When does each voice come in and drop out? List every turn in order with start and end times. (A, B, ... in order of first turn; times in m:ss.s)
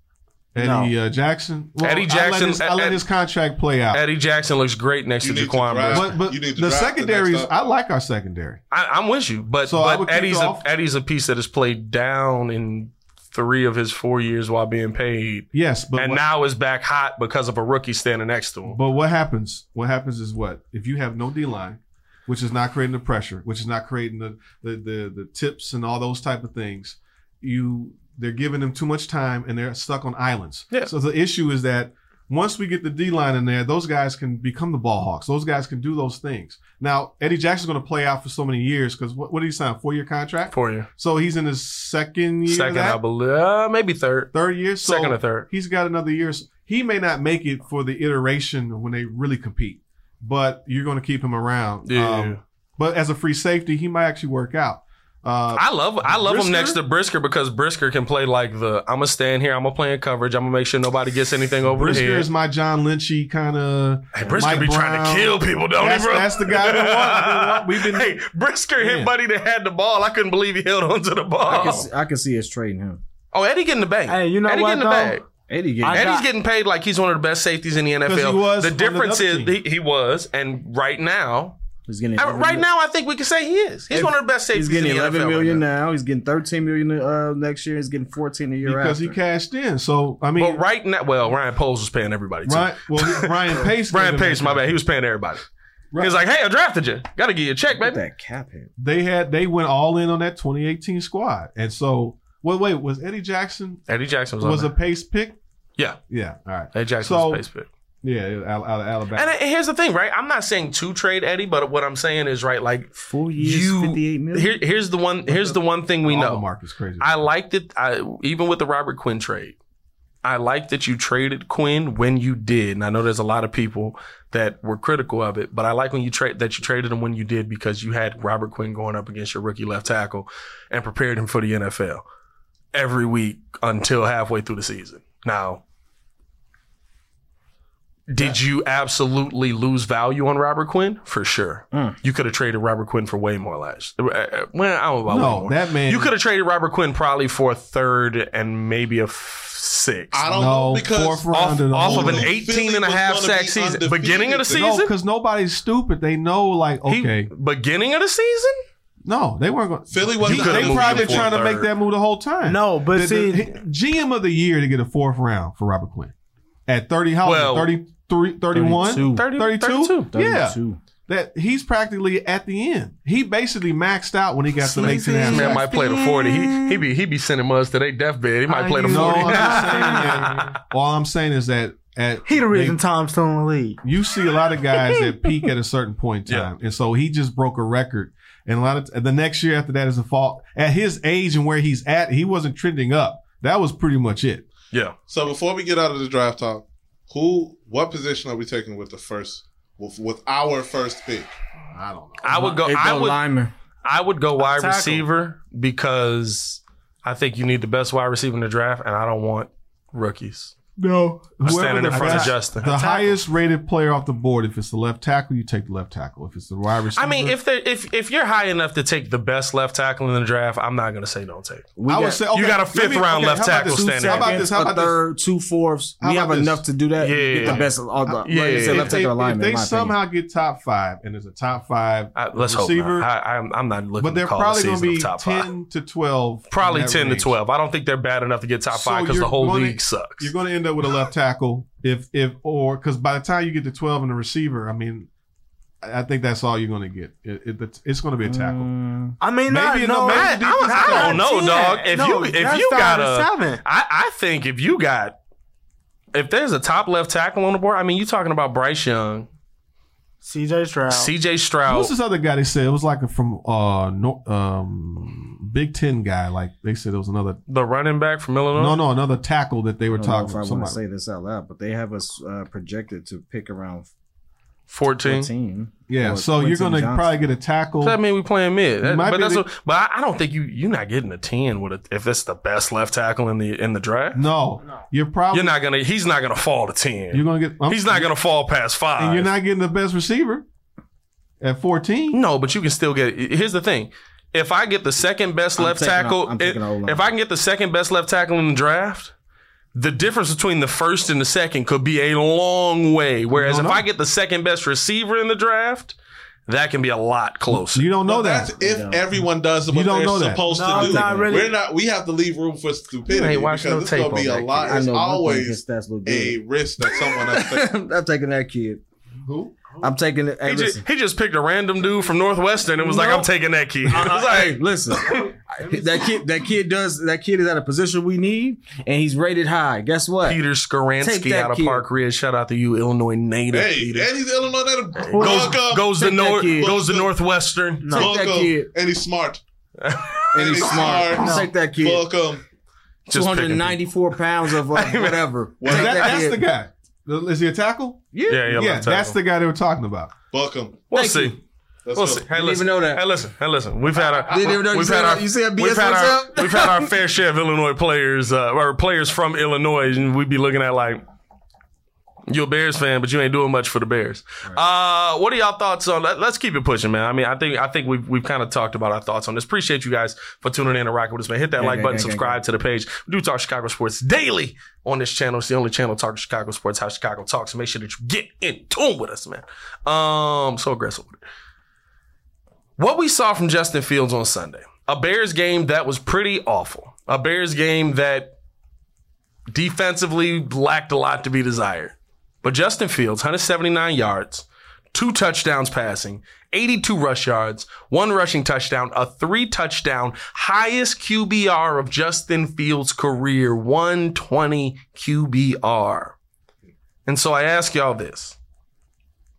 0:00.5-0:04.0 A
0:00.6-0:00.9 B
0:01.8-0:03.0 C
0:03.9-0:06.2 C
0:05.2-0:07.5 D
0:05.9-0:08.6 A
0:08.7-0:18.8 C
0:09.6-0:10.7 A
0:15.5-0:16.2 A
0:18.7-0:43.0 A
0:40.5-0:40.9 C
0:42.5-0:45.5 C
0:44.3-0:56.8 A
0:51.9-0:52.4 C
0:55.6-1:02.3 C
1:01.7-1:08.2 A
1:04.1-1:11.9 C
1:08.8-1:09.1 A
1:11.4-1:13.0 E
1:13.3-1:15.3 C
1:14.1-1:15.2 B
1:15.5-1:16.1 E
1:15.8-1:16.3 B
1:15.9-1:21.6 C
1:18.0-1:19.6 A
1:21.9-1:22.6 E
1:22.2-1:25.6 C
1:23.9-1:29.2 E
1:28.6-1:30.6 A
1:30.4-1:38.0 C
1:32.5-1:34.8 A
1:35.9-1:36.2 A
1:37.7-1:38.7 E
1:38.8-1:43.8 A
1:43.9-1:44.7 C
1:44.4-1:45.4 A
1:46.1-1:47.4 A
1:46.7-1:47.7 C
1:48.0-1:49.3 A
1:49.2-1:56.4 C
1:53.0-1:54.6 E
1:56.0-1:57.2 A
1:57.0-1:59.6 C
2:00.2-2:12.0 C
2:12.7-2:15.6 C
2:18.1-2:30.3 C
2:21.7-2:22.0 E
2:25.1-2:26.1 A
2:30.1-2:34.7 D
2:30.3-2:32.4 A
2:31.3-2:34.9 C
2:34.5-2:37.3 A
2:36.9-2:38.6 C
2:39.0-2:46.1 A
2:39.9-2:41.4 D
2:40.2-2:41.7 C
2:42.4-2:43.5 B
2:46.7-2:55.7 A
2:47.2-2:47.7 C
2:48.5-2:49.3 E
2:49.0-2:50.1 C
2:50.1-2:50.8 E
2:54.8-2:56.8 B
2:54.8-3:00.5 C
2:54.8-2:55.4 E
2:58.5-3:00.4 B
2:58.8-3:02.8 A
3:02.3-3:03.8 B
3:03.8-3:14.5 A
3:15.1-3:21.3 D
3:21.7-3:22.2 A
3:22.2-3:23.2 C
3:22.3-3:23.5 E
3:23.8-3:30.6 C
3:24.4-3:25.0 B
3:30.8-3:33.2 B
3:31.4-3:37.4 A
3:31.4-3:32.7 C
3:37.0-3:41.7 C
3:41.8-3:42.2 E
3:41.9-3:45.0 A
3:42.3-3:44.5 C
3:44.0-3:50.0 E
3:46.0-3:46.6 A
3:47.0-3:47.7 C
3:47.4-3:53.1 A
3:48.2-3:49.0 C
3:52.2-3:55.5 C
3:54.0-3:57.4 A
3:56.5-4:00.3 C
3:58.7-4:05.1 A
4:05.8-4:08.7 A
4:08.3-4:09.2 E
4:09.2-4:13.6 B
4:09.5-4:11.2 A
4:10.1-4:15.2 C
4:16.1-4:19.3 C
4:20.2-4:21.1 B
4:20.9-4:21.9 C
4:21.7-4:27.4 A
4:27.5-4:28.8 C
4:28.6-4:30.8 A
4:29.9-4:33.9 E
4:34.7-4:35.3 C
4:35.0-4:37.2 E
4:35.9-4:38.0 A
4:37.8-4:44.2 C
4:38.8-4:39.5 A
4:44.1-4:45.6 A
4:45.3-4:49.3 C
4:47.1-4:48.1 A
4:49.0-4:50.4 A
4:51.4-4:52.2 A
4:52.1-4:59.1 C
4:55.6-4:57.1 E
4:59.7-5:06.0 C
5:03.3-5:03.8 A
5:06.5-5:07.9 C
5:07.5-5:08.5 A
5:08.0-5:17.7 D
5:08.6-5:09.0 E
5:09.7-5:10.4 A
5:10.4-5:11.6 B
5:10.8-5:11.3 E
5:13.1-5:14.9 C
5:14.7-5:18.8 E
5:19.2-5:19.8 A
5:19.8-5:20.8 E
5:20.4-5:25.2 C
5:22.9-5:23.2 E
5:23.8-5:30.4 E
5:30.2-5:34.1 C
5:31.0-5:31.9 E
5:33.5-5:36.0 D
5:35.0-5:38.1 C
5:35.1-5:35.6 B
5:35.8-5:36.8 E
5:36.5-5:37.1 D
5:37.8-5:38.1 B
5:37.9-5:39.4 D
5:37.9-5:38.7 E
5:39.8-5:41.0 C
5:40.3-5:42.1 E
5:40.3-5:42.4 D
5:41.2-5:41.5 B
5:43.1-5:45.2 C
5:43.1-5:46.4 E
5:45.6-5:46.3 D
5:45.7-5:50.1 A
5:48.1-5:48.5 E
5:48.3-5:49.2 C
5:50.3-5:50.9 D
5:50.9-5:51.4 C
5:50.9-5:51.4 E
5:51.9-5:52.3 D
5:51.9-6:01.0 C
5:52.3-5:53.0 E
5:54.3-5:56.9 E
6:02.3-6:21.2 C
6:11.6-6:12.4 E
6:22.8-6:28.3 C
6:29.5-6:46.2 C
6:47.1-6:48.4 C